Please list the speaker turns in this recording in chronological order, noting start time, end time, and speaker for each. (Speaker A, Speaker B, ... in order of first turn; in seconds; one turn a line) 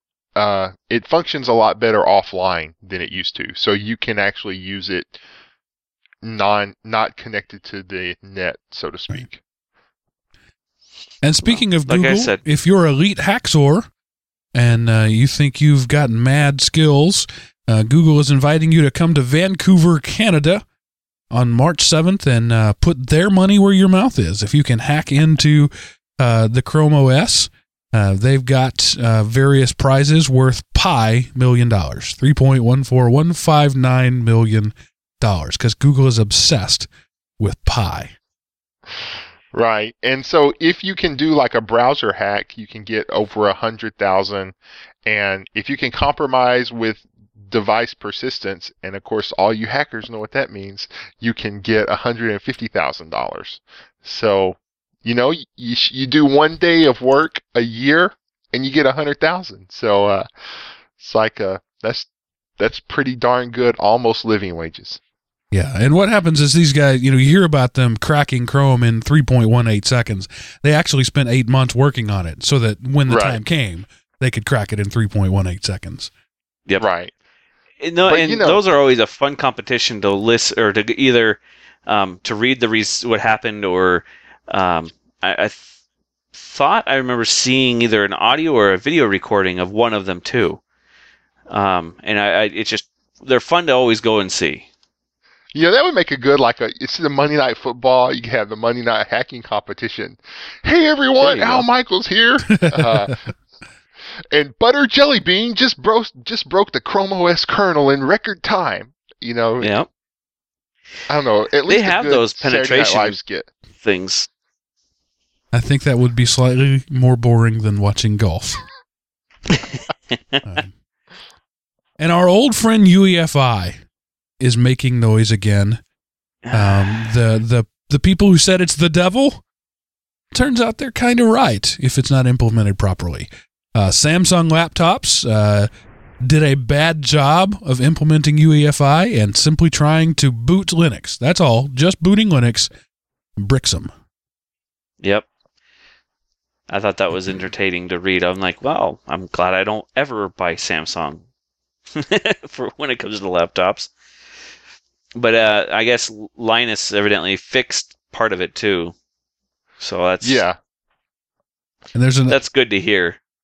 Speaker A: 0.4-5.2
Speaker A: 6.2-9.4
Speaker B: 11.2-13.9
Speaker C: 11.4-12.4
Speaker B: 14.5-20.6
Speaker B: 21.3-36.9
Speaker B: 37.4-38.1
Speaker A: 39.5-60.3
Speaker A: 61.0-62.1
Speaker A: 62.6-65.0
Speaker B: 65.5-76.1
Speaker A: 73.1-73.4
Speaker A: 76.8-77.1
Speaker C: 77.8-85.7
Speaker A: 78.1-78.6
Speaker C: 86.3-90.6
Speaker C: 91.5-94.7
Speaker A: 95.5-103.2
Speaker C: 101.2-101.7
Speaker B: 102.5-103.1
Speaker A: 104.3-109.7
Speaker C: 109.6-109.9
Speaker A: 111.1-113.5
Speaker C: 111.7-113.2
Speaker C: 113.8-114.3
Speaker B: 115.5-118.6
Speaker C: 119.5-120.4
Speaker B: 120.4-120.7
Speaker B: 122.0-123.8
Speaker B: 124.4-125.8
Speaker C: 126.4-127.1
Speaker B: 126.5-129.4
Speaker B: 130.3-135.7
Speaker B: 136.2-142.7
Speaker B: 143.4-143.9
Speaker C: 146.7-151.2
Speaker C: 151.9-153.9
Speaker C: 155.2-158.9
Speaker C: 159.8-160.4
Speaker A: 160.2-160.6
Speaker B: 161.9-162.4
Speaker C: 162.3-163.2